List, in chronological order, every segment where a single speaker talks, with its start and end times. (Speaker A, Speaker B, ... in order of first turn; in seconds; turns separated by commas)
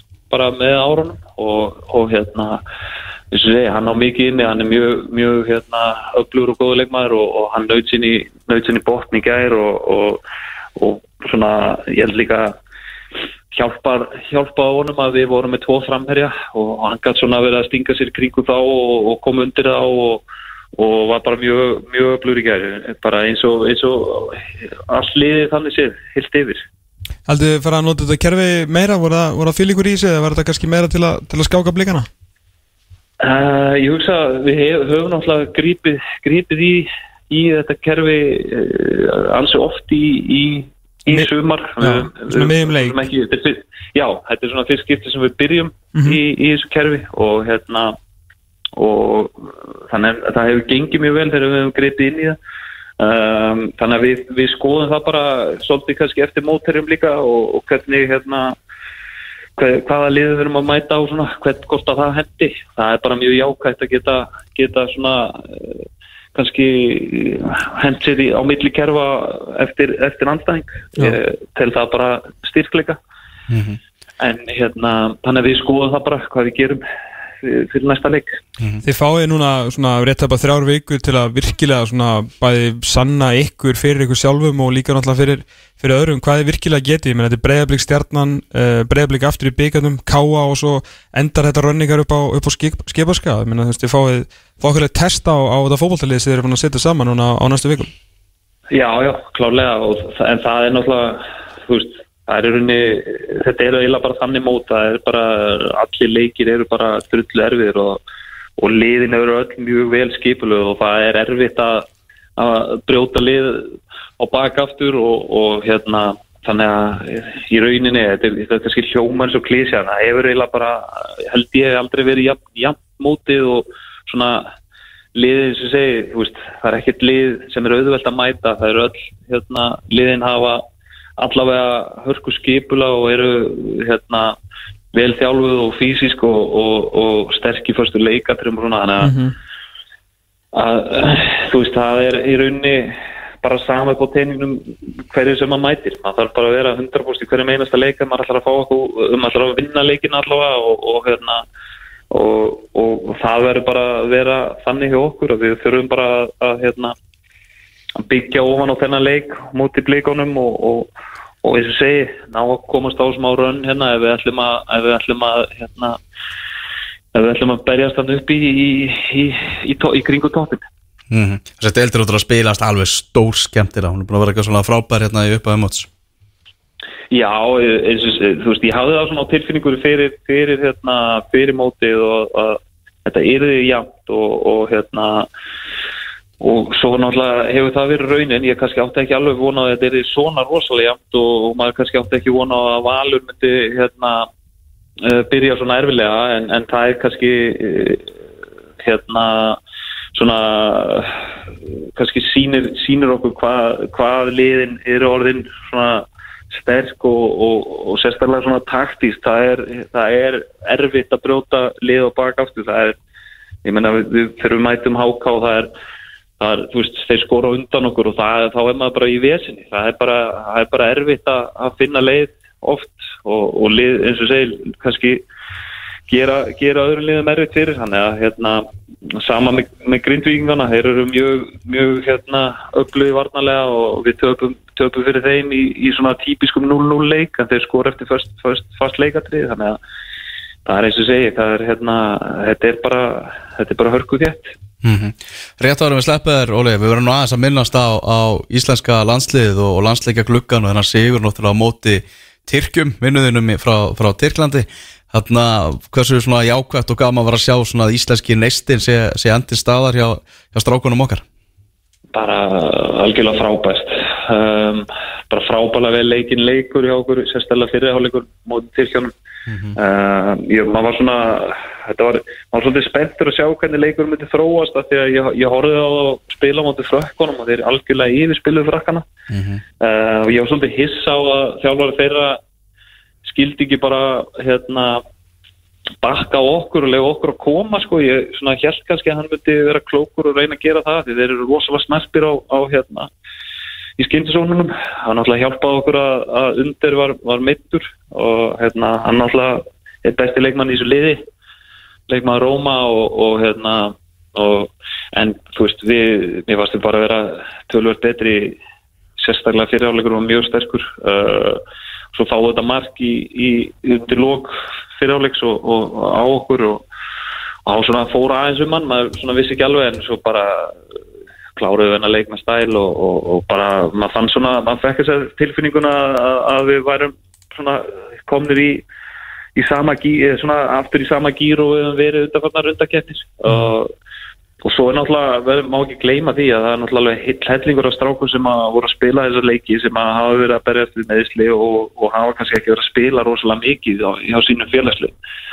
Speaker A: 0.3-2.6, Speaker A: 3.3-10.2, Speaker A: 10.8-12.6, Speaker A: 13.5-20.2, Speaker A: 20.8-26.6, Speaker B: 27.3-32.1, Speaker A: 33.2-48.0, Speaker B: 41.1-43.0, Speaker A: 48.8-52.4, Speaker A: 53.0-58.6, Speaker A: 59.6-65.8, Speaker A: 66.3-73.0, Speaker C: 73.5-73.8, Speaker A: 74.2-76.8, Speaker A: 77.4-78.4, Speaker B: 78.8-97.9, Speaker A: 98.7-108.0, Speaker A: 108.6-124.5, Speaker A: 125.2-130.6, Speaker A: 131.2-134.4, Speaker A: 134.9-139.2, Speaker B: 139.0-139.3, Speaker A: 140.5-151.4, Speaker A: 152.1-156.9, Speaker A: 158.1-160.9, Speaker A: 161.4-166.0, Speaker A: 167.1-170.6, Speaker C: 171.1-175.9, Speaker A: 177.1-185.3, Speaker A: 186.4-194.3, Speaker A: 195.0-198.1, Speaker A: 198.8-199.6, Speaker A: 200.2-201.2, Speaker A: 202.0-213.0, Speaker A: 213.7-215.7, Speaker A: 216.4-225.2, Speaker A: 226.1-228.6, Speaker A: 229.2-239.8, Speaker A: 240.7-244.5, Speaker C: 244.8-261.2, Speaker A: 262.1-269.1, Speaker C: 269.5-269.8, Speaker A: 269.8-279.1, Speaker C: 279.3-279.6, Speaker A: 279.8-282.4, Speaker A: 283.2-285.0, Speaker A: 286.0-293.1, Speaker A: 294.0-301.2, Speaker A: 302.1-308.6, Speaker A: 309.2-311.6, Speaker A: 312.1-316.8, Speaker A: 317.7-320.8, Speaker A: 321.6-328.8, Speaker A: 329.6-333.9, Speaker A: 334.6-345.1